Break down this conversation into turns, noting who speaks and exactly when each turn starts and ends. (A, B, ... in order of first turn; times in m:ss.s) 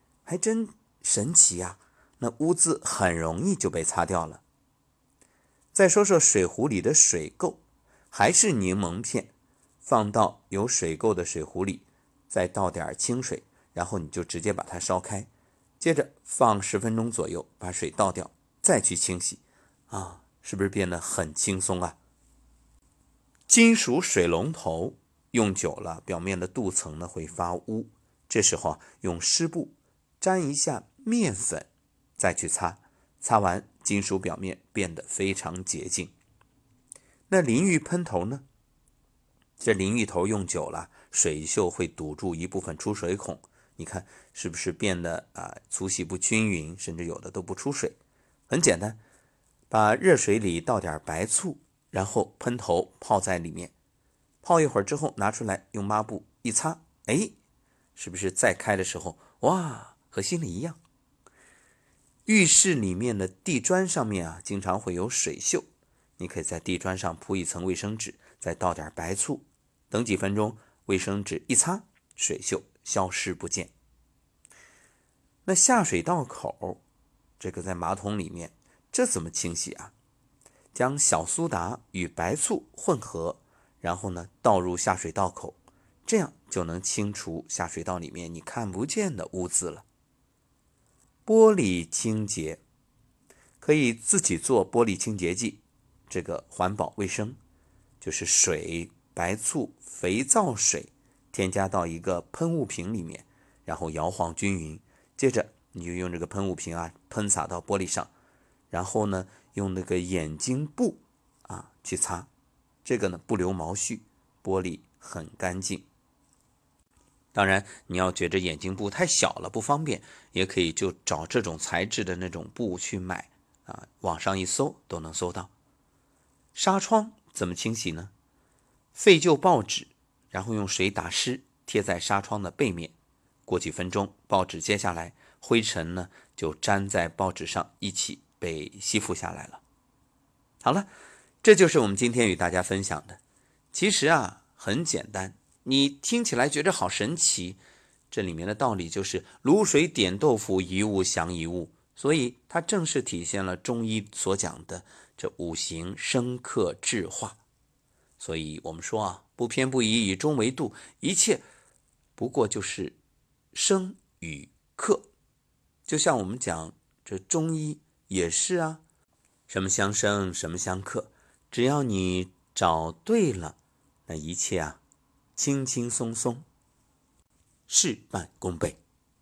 0:00.2-0:04.4 A
0:05.7-0:07.6 A
0:08.1-0:09.3 A
0:09.8-0:15.3 A
0:15.8-0:22.0 A
0:23.5-0:36.1 A
0:37.3-0:38.4 A
0:39.6-0:48.0 A
0:48.5-0:49.0 A
0:49.7-0:53.7 A
0:54.4-0:57.3 A
0:58.0-1:00.8 A
1:02.2-1:05.6 A
1:06.2-1:13.7 A
1:15.4-1:16.8 A
1:17.4-1:19.9 A
1:20.7-1:29.8 A
1:31.2-1:32.6 A
1:33.6-1:37.4 A
1:38.0-1:48.1 A
1:48.7-1:52.3 A
1:52.8-1:55.9 A
1:57.3-2:05.5 A
2:06.5-2:08.1 A
2:08.9-2:12.9 A
2:13.5-2:19.6 A
2:20.6-2:20.9 A
2:21.4-2:23.2 A
2:23.7-2:27.6 A
2:28.1-2:37.4 A
2:38.2-2:41.4 A
2:42.2-2:43.0 A
2:43.5-2:45.1 A
2:45.9-2:48.8 A
2:49.5-2:54.8 A
2:55.4-2:56.4 A
2:57.7-2:58.8 A